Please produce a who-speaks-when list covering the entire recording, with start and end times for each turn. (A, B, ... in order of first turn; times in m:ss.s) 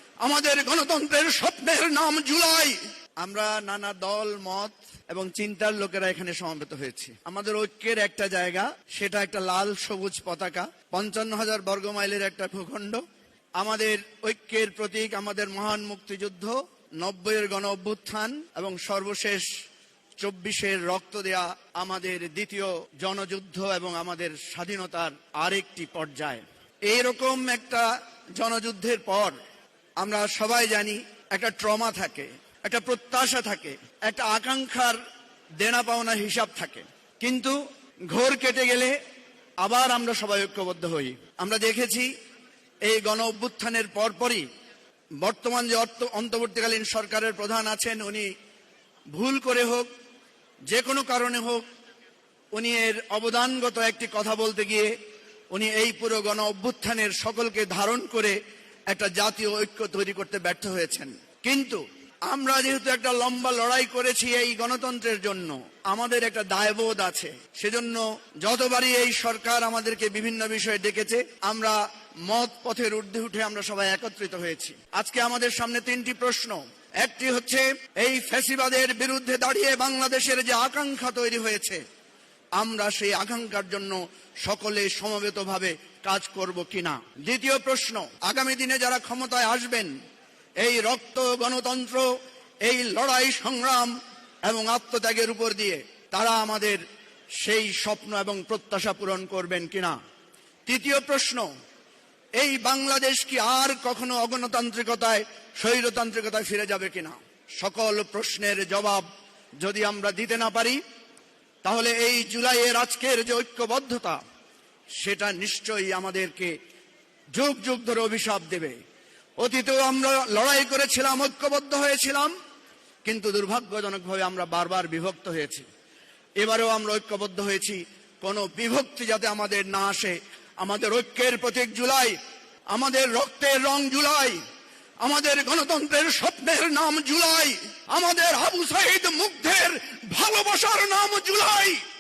0:00.2-0:13.0 A
0:13.6-0:19.5 A
0:20.2-0:29.4 A
0:30.0-0:35.0 A
0:35.6-0:39.0 A
0:39.6-0:42.1 A
0:42.9-0:44.4 A
0:45.2-0:48.3 A
0:49.1-0:49.9 A
0:50.7-0:51.6 A
0:52.5-0:54.9 A
0:55.5-0:58.4 A
0:58.9-1:21.8 A
1:22.6-1:29.9 A
1:30.6-1:32.1 A
1:32.6-1:36.8 A
1:37.4-1:40.0 A
1:40.7-1:41.5 A
1:42.4-1:49.1 A
1:49.6-1:50.8 A
1:51.6-1:54.2 A
1:55.0-1:56.5 A
1:57.3-1:58.8 A
1:59.4-2:02.3 A
2:03.0-2:05.7 A
2:06.4-2:12.2 A
2:12.7-2:14.4 A
2:15.0-2:21.8 A